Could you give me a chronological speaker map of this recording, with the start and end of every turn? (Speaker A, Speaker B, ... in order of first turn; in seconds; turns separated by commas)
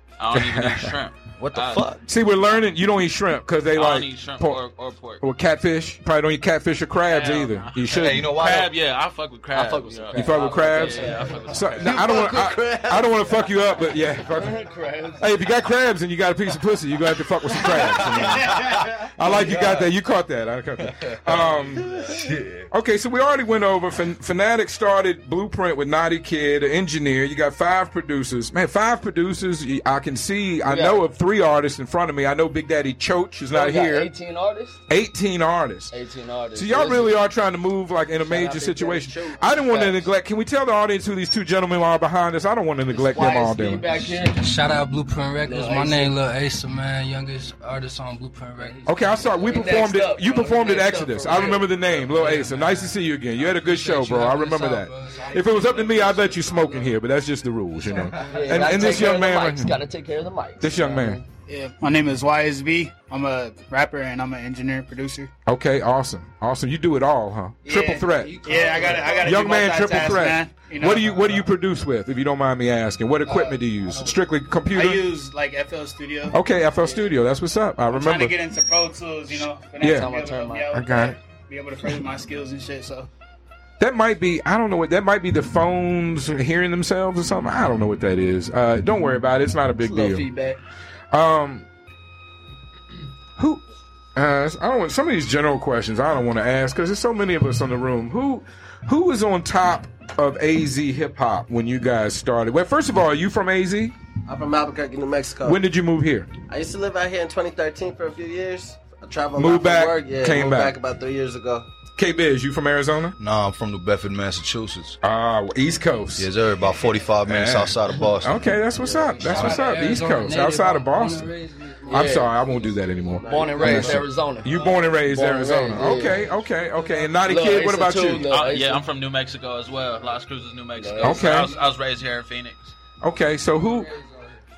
Speaker A: 0.2-1.9, Speaker B: 0.3-0.9, Speaker C: 1.4-2.0, Speaker B: 2.0-4.6, Speaker A: 3.7-5.2, Speaker B: 5.2-8.3, Speaker A: 7.1-12.2, Speaker C: 7.9-8.7, Speaker D: 9.6-11.5, Speaker E: 9.7-10.4, Speaker B: 10.1-22.0, Speaker E: 10.9-13.7, Speaker D: 14.3-15.3, Speaker C: 17.7-19.9, Speaker C: 20.8-22.7, Speaker B: 22.7-34.1, Speaker D: 30.7-31.0, Speaker D: 33.5-34.8, Speaker B: 34.9-35.9, Speaker D: 35.9-37.1, Speaker B: 36.5-43.9, Speaker E: 38.2-39.6, Speaker D: 39.4-40.0, Speaker D: 42.9-44.6, Speaker F: 43.9-49.9, Speaker D: 45.4-46.1, Speaker B: 48.8-59.8, Speaker D: 49.4-52.6, Speaker F: 52.0-57.0, Speaker F: 57.8-59.1, Speaker D: 58.2-61.2, Speaker B: 60.6-61.2, Speaker G: 61.5-65.3, Speaker B: 65.5-68.4, Speaker G: 67.6-71.3, Speaker F: 68.0-70.1, Speaker B: 69.2-75.1, Speaker F: 73.3-74.2, Speaker G: 74.7-76.4, Speaker B: 76.3-78.4, Speaker G: 77.9-83.1, Speaker B: 79.8-80.1, Speaker D: 79.8-80.7, Speaker B: 80.7-81.2, Speaker B: 83.8-90.3, Speaker D: 89.8-90.6, Speaker B: 91.1-91.7, Speaker B: 93.4-93.6, Speaker B: 94.1-103.9, Speaker E: 104.2-105.6, Speaker B: 105.4-106.3, Speaker E: 106.5-111.7, Speaker B: 109.4-110.8, Speaker B: 112.0-113.2, Speaker C: 113.2-115.0, Speaker B: 115.0-116.3, Speaker C: 116.2-118.4, Speaker B: 117.2-121.3, Speaker F: 118.8-122.8, Speaker E: 121.9-122.3, Speaker B: 121.9-128.3, Speaker D: 121.9-122.2, Speaker E: 123.1-124.0, Speaker D: 123.3-126.2, Speaker F: 123.5-124.8, Speaker F: 125.7-127.2, Speaker D: 127.2-128.8, Speaker A: 128.2-132.7, Speaker D: 130.8-131.3, Speaker B: 131.0-131.5, Speaker F: 131.2-131.6, Speaker B: 133.0-133.9, Speaker F: 133.5-134.4